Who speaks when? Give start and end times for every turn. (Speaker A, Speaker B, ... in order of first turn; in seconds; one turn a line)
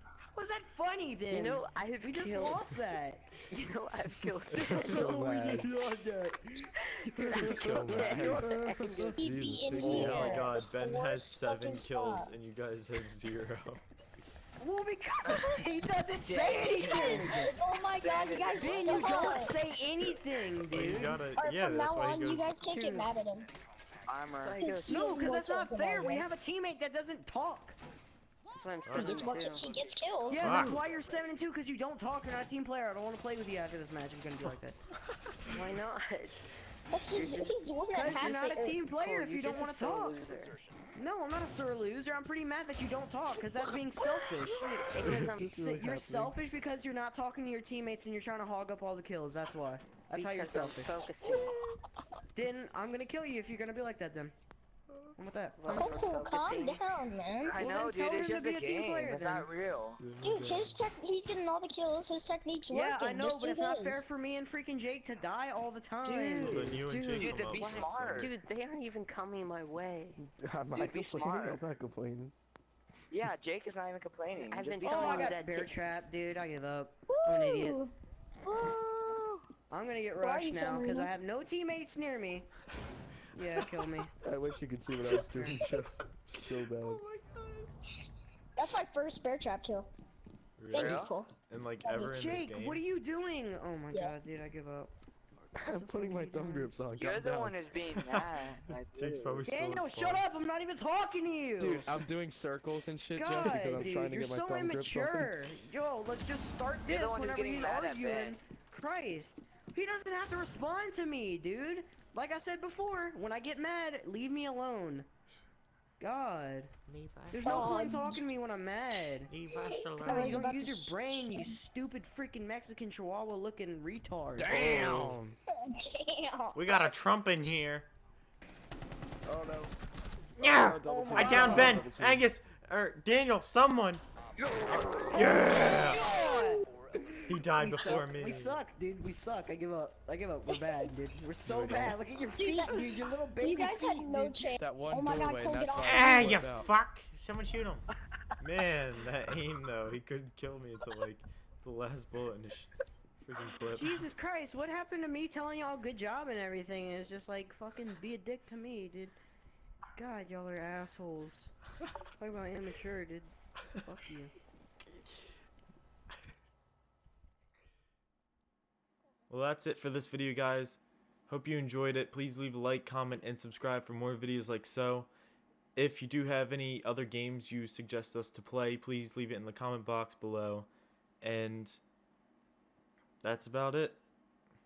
Speaker A: 0.2-3.3
Speaker B: 1.3-2.7
Speaker B: 3.5-5.2
Speaker C: 4.5-5.7
Speaker A: 4.6-9.1
Speaker B: 6.9-9.1
Speaker C: 7.3-10.5
Speaker D: 9.1-12.3
Speaker E: 9.8-13.8
Speaker A: 14.6-17.4
Speaker F: 16.2-19.2
Speaker D: 16.8-19.5
Speaker A: 18.6-21.2
Speaker E: 20.6-22.6
Speaker D: 21.4-23.5
Speaker B: 22.7-23.1
Speaker F: 24.1-24.6
Speaker B: 24.4-25.0
Speaker D: 24.6-26.3
Speaker A: 24.9-27.8
Speaker B: 28.5-29.6
Speaker E: 28.9-29.3
Speaker D: 29.0-30.5
Speaker A: 30.3-34.8
Speaker E: 30.4-30.8
Speaker B: 35.5-36.4
Speaker D: 36.9-38.8
Speaker B: 37.1-37.5
Speaker A: 37.9-40.2
Speaker B: 38.1-40.6
Speaker A: 41.0-51.0
Speaker B: 44.6-45.8
Speaker C: 45.0-46.3
Speaker B: 50.1-51.6
Speaker A: 52.4-54.3
Speaker A: 55.1-55.9
Speaker B: 55.6-56.8
Speaker D: 55.7-57.5
Speaker F: 57.5-60.0
Speaker A: 57.5-59.5
Speaker E: 60.0-60.8
Speaker D: 60.2-64.0
Speaker A: 62.7-66.7
Speaker F: 66.0-68.3
Speaker E: 66.4-68.3
Speaker B: 67.3-70.2
Speaker C: 70.2-72.3
Speaker F: 70.7-71.6
Speaker F: 73.1-75.1
Speaker B: 74.5-75.8
Speaker A: 74.8-77.8
Speaker D: 77.1-77.9
Speaker D: 78.5-79.0
Speaker A: 79.7-82.5
Speaker D: 80.2-81.1
Speaker A: 83.3-84.1
Speaker C: 84.2-87.0
Speaker A: 85.1-85.7
Speaker D: 88.6-89.9
Speaker E: 90.6-92.8
Speaker D: 90.7-92.2
Speaker F: 90.7-91.1
Speaker A: 92.1-96.8
Speaker C: 95.5-97.6
Speaker F: 96.9-99.5
Speaker E: 98.0-98.3
Speaker E: 98.9-100.2
Speaker A: 99.4-101.9
Speaker C: 101.6-105.5
Speaker A: 103.1-115.1
Speaker F: 106.8-108.4
Speaker A: 116.0-116.7
Speaker A: 117.3-119.3
Speaker D: 117.4-118.2
Speaker D: 119.5-121.6
Speaker A: 120.0-124.9
Speaker C: 124.4-125.3
Speaker E: 124.6-125.2
Speaker D: 125.6-126.9
Speaker E: 126.5-127.9
Speaker C: 129.3-129.7
Speaker E: 130.4-134.0
Speaker C: 130.4-132.2
Speaker A: 130.8-131.9
Speaker F: 134.4-136.5
Speaker A: 134.7-144.5
Speaker E: 135.1-136.1
Speaker E: 137.3-138.6
Speaker D: 140.6-140.9
Speaker C: 141.5-142.0
Speaker D: 142.3-146.4
Speaker C: 144.6-146.7
Speaker E: 145.8-147.8
Speaker E: 148.4-154.1
Speaker A: 153.7-159.2
Speaker A: 159.9-161.5
Speaker A: 162.2-164.3
Speaker E: 169.3-175.1
Speaker E: 175.8-180.7
Speaker E: 181.2-181.8
Speaker E: 183.2-184.0